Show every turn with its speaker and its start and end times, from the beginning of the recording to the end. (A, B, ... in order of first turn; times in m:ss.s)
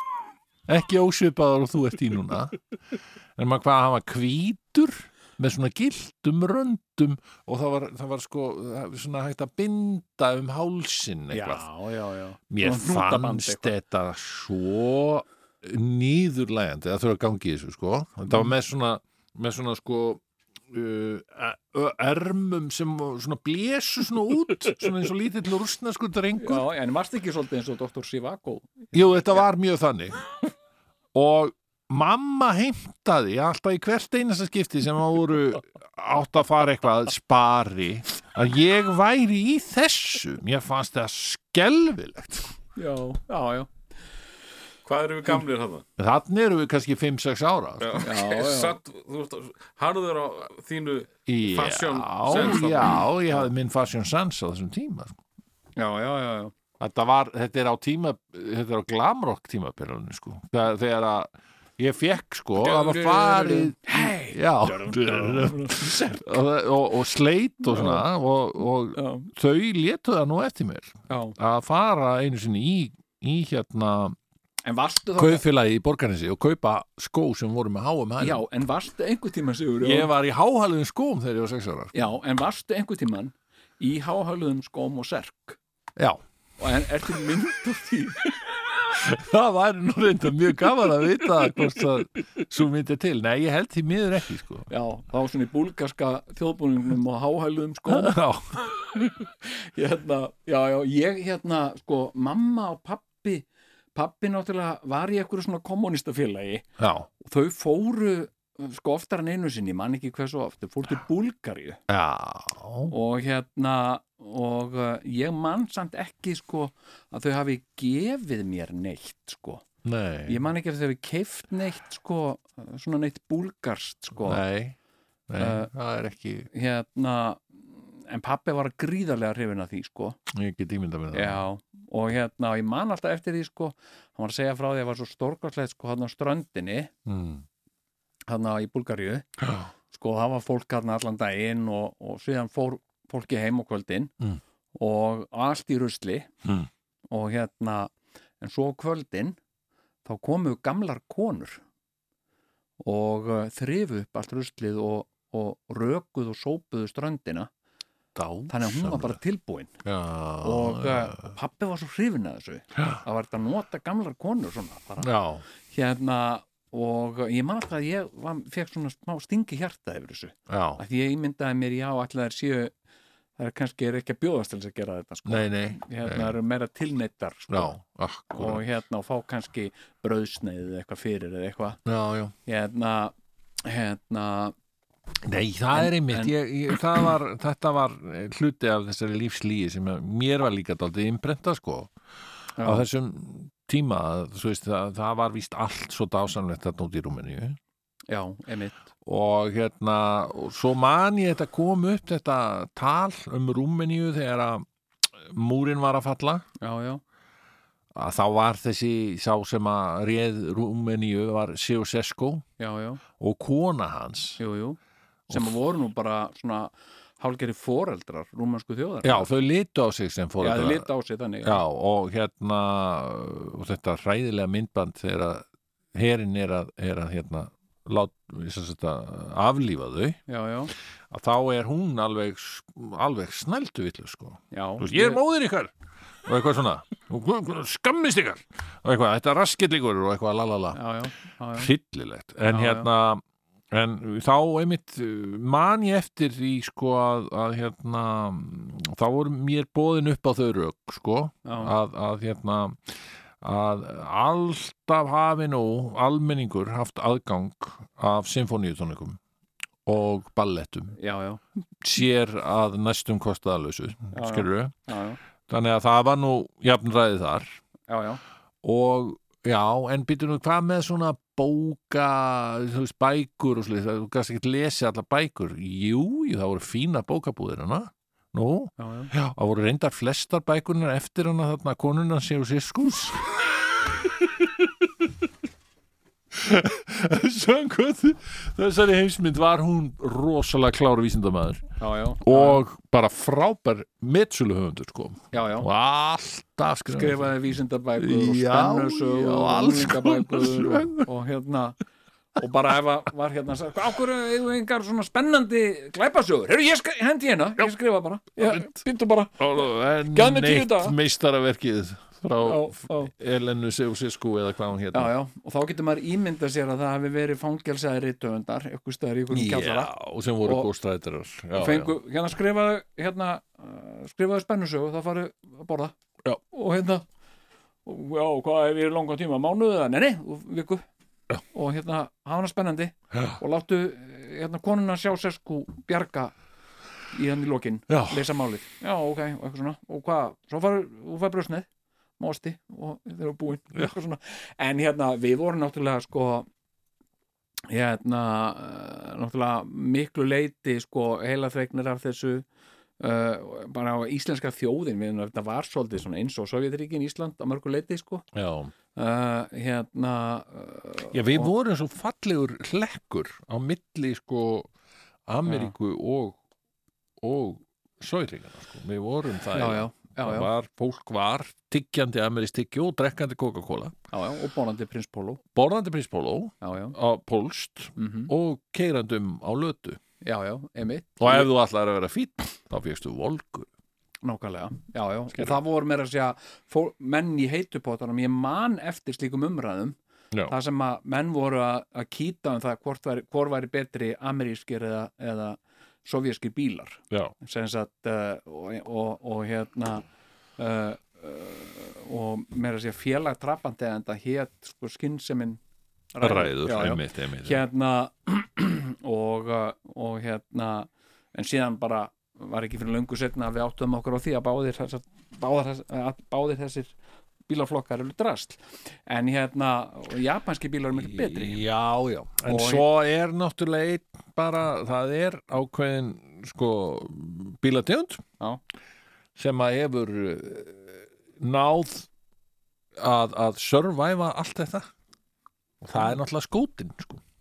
0:00.7-0:02.6 A
0:03.4-0:11.7 A
0:11.3-0:13.7 B
0:12.5-0:26.6 A
0:26.4-0:29.4 B
0:28.9-0:30.2 A
0:31.1-0:42.5 A
0:42.8-0:43.7 B
0:44.8-0:45.8 C
0:46.0-0:48.0 A
0:47.8-0:53.1 C
0:48.0-0:48.8 B
0:51.3-0:55.1 A
0:55.8-0:56.5 B
0:56.8-1:14.2 A
1:02.7-1:03.2 C
1:02.9-1:06.4 B
1:07.6-1:08.0 B
1:08.9-1:09.3 B
1:11.1-1:11.4 B
1:14.6-1:15.4 B
1:15.2-1:18.4 A
1:18.2-1:20.1 B
1:19.8-1:21.9 A
1:21.9-1:25.6 B
1:26.6-1:28.4 B
1:28.9-1:34.7 A
1:34.7-1:38.2 B
1:37.9-1:39.1 A
1:39.4-1:46.6 B
1:46.8-1:47.1 A
1:47.2-1:51.8 B
1:51.9-1:52.9 A
1:52.9-1:59.6 B
1:59.8-2:00.4 A
2:00.3-2:04.4 B
2:04.2-2:04.8 A
2:05.3-2:06.5 A
2:05.4-2:05.7 B
2:06.5-2:10.2 B
2:10.3-2:11.4 A
2:11.1-2:16.9 B
2:17.0-2:17.4 A
2:18.3-2:19.3 B
2:19.4-2:19.7 A
2:19.9-2:24.1 B
2:24.7-2:26.3 B
2:26.4-2:26.7 A
2:27.1-2:29.4 B
2:30.0-2:31.6 B
2:32.8-2:37.5 B
2:38.1-2:39.2 A
2:38.5-2:39.7 B
2:39.8-2:41.3 A
2:40.4-2:45.1 B
2:42.8-2:43.0 A
2:45.0-2:45.4 A
2:45.7-2:52.7 B
2:50.5-2:50.8 A
2:53.4-2:57.8 B
2:55.2-2:56.4 A
2:57.5-2:58.6 A
2:58.3-3:01.8 B
3:01.8-3:02.3 A
3:02.4-3:04.5 B
3:05.2-3:11.9 A
3:05.7-3:06.3 B
3:12.6-3:12.8 B
3:12.6-3:17.6 A
3:18.1-3:18.8 B
3:19.0-3:24.6 A
3:25.2-3:26.4 A
3:26.6-3:27.0 B
3:27.9-3:32.4 A
3:32.6-3:33.0 B
3:33.2-3:34.4 A
3:34.4-3:34.8 B
3:35.3-3:39.3 B
3:39.0-3:40.9 A
3:40.4-3:41.6 B
3:41.4-3:50.2 A
3:50.3-3:50.7 B
3:51.1-3:55.7 A
3:54.5-3:55.2 B
3:56.2-4:00.8 A
4:00.7-4:01.7 B
4:01.6-4:19.2 A
4:02.5-4:02.9 B
4:11.4-4:11.7 B
4:19.8-4:21.0 A
4:21.0-4:21.4 B
4:21.8-4:24.7 A
4:24.1-4:25.2 B
4:25.5-4:27.5 A
4:27.9-4:28.2 B
4:28.6-4:43.3 A
4:38.8-4:39.1 B
4:44.0-4:45.1 A
4:46.3-4:57.4 A
4:51.8-4:52.6 B
4:55.3-4:55.7 B
4:56.9-5:01.8 B
4:58.0-5:01.1 A
5:02.4-5:11.0 B
5:08.4-5:08.8 A
5:09.4-5:15.1 A
5:12.4-5:13.1 B
5:14.9-5:19.9 B
5:19.3-5:21.9 A
5:20.4-5:20.7 B
5:21.5-5:25.9 B
5:26.5-5:27.0 B
5:27.8-5:30.8 B
5:31.5-5:36.3 B
5:33.1-5:33.4 A
5:37.1-5:41.7 B
5:37.9-5:38.2 A
5:42.2-5:46.5 B
5:47.7-5:52.4 B
5:53.0-5:58.2 B
5:58.3-5:58.7 A
5:59.0-6:01.5 B
6:01.1-6:04.7 A
6:05.3-6:06.4 A
6:05.4-6:05.7 B
6:07.2-6:14.0 A
6:09.5-6:10.5 B
6:14.1-6:15.4 B
6:15.5-6:20.0 A
6:16.6-6:17.0 B
6:18.0-6:18.3 B
6:20.2-6:21.5 B
6:21.2-6:23.7 A
6:24.2-6:30.0 B
6:25.3-6:25.6 A
6:30.5-6:40.0 B
6:40.6-6:45.6 B
6:46.1-6:56.9 B
6:46.2-6:47.6 A
6:57.5-7:01.6 B
7:00.9-7:08.2 A
7:02.4-7:02.9 B
7:09.4-7:12.1 A
7:13.0-7:14.9 A
7:15.8-7:17.2 A